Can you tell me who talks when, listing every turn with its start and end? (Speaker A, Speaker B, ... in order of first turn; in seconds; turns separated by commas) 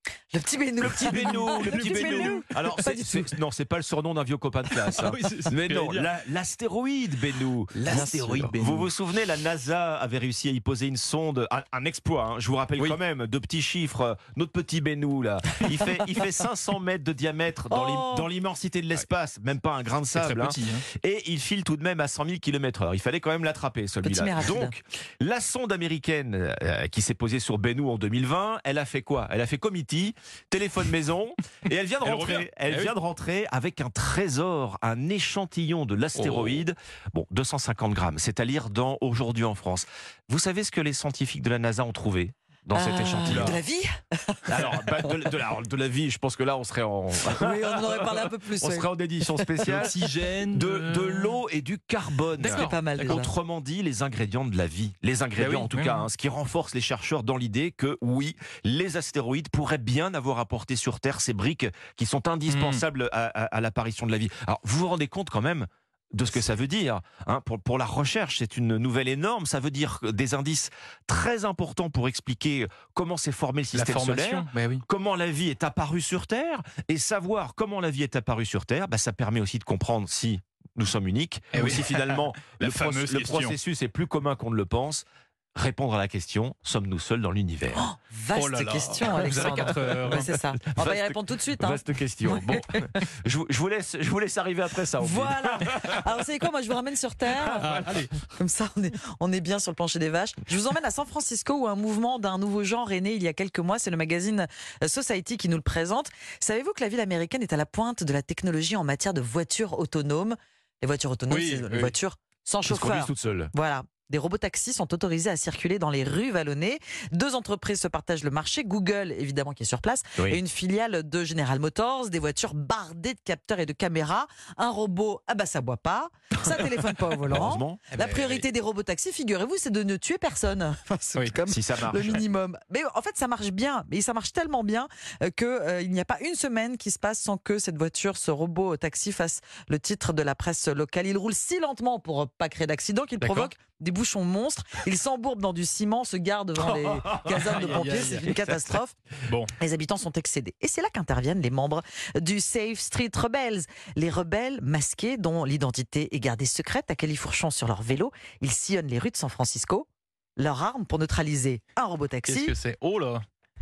Speaker A: 0.3-3.4, Speaker B: 0.8-43.6, Speaker C: 1.0-2.4, Speaker C: 4.9-6.1, Speaker C: 7.7-8.9, Speaker A: 7.9-8.5, Speaker A: 17.7-18.3, Speaker C: 20.1-20.9, Speaker A: 24.0-24.7, Speaker C: 32.0-33.0, Speaker C: 36.1-36.6, Speaker A: 42.7-45.1, Speaker C: 43.3-43.6, Speaker B: 44.5-49.9, Speaker A: 47.3-49.9, Speaker C: 49.7-51.4, Speaker B: 50.5-87.9, Speaker C: 52.4-53.2, Speaker A: 52.5-53.3, Speaker C: 55.4-56.1, Speaker C: 62.5-62.8, Speaker C: 73.7-74.8, Speaker C: 81.5-83.6, Speaker A: 87.7-92.9, Speaker C: 88.3-90.4, Speaker B: 90.7-96.0, Speaker A: 95.0-149.0, Speaker C: 97.5-98.1, Speaker C: 111.3-112.0, Speaker B: 112.7-113.5, Speaker B: 127.3-127.8, Speaker C: 127.9-128.5, Speaker B: 131.5-132.2, Speaker C: 143.2-143.5, Speaker C: 146.8-148.4, Speaker C: 149.3-149.5, Speaker A: 149.6-162.6, Speaker C: 162.3-163.2